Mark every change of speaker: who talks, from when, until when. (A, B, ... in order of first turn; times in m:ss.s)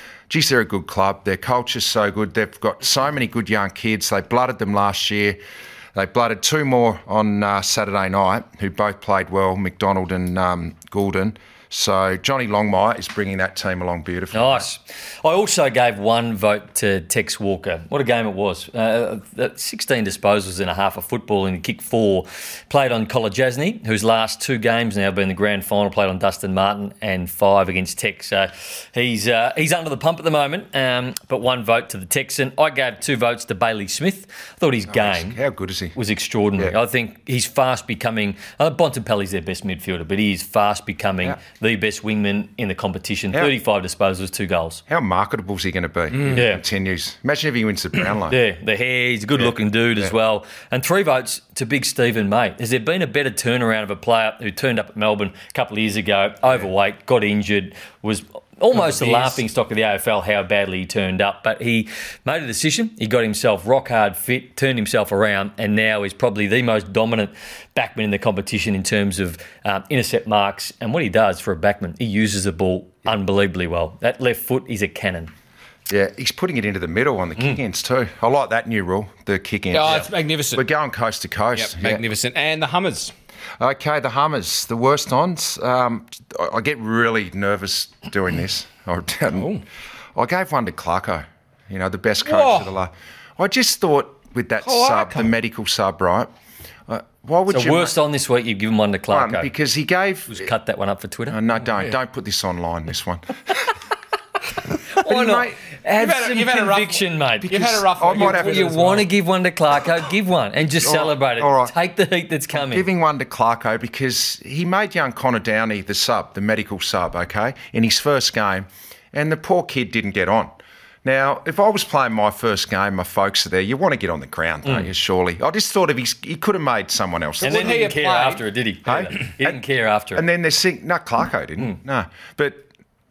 0:00.3-0:05.4 A
0:06.0-0:14.7 A
0:14.3-0:35.4 B
0:34.9-0:36.0 A
0:35.9-0:44.8 B
0:44.9-0:48.4 A
0:46.3-0:46.6 B
0:48.3-1:15.3 B
0:49.4-0:50.1 A
0:58.7-0:59.4 C
1:15.9-1:22.0 A
1:19.7-1:20.6 C
1:21.6-1:23.1 C
1:23.6-1:29.5 A
1:29.3-1:29.6 C
1:30.2-1:36.3 A
1:32.2-1:32.7 C
1:34.6-1:35.3 C
1:36.9-1:38.0 A
1:37.5-1:39.5 B
1:39.1-1:40.5 A
1:40.3-1:41.4 B
1:41.3-1:43.7 A
1:45.0-1:52.9 B
1:45.0-1:45.6 A
1:46.0-1:49.1 C
1:47.4-1:48.8 A
1:50.8-1:51.7 A
1:52.5-2:07.8 A
2:07.4-2:08.4 C
2:07.4-2:10.2 B
2:08.9-2:09.6 A
2:10.2-2:12.7 A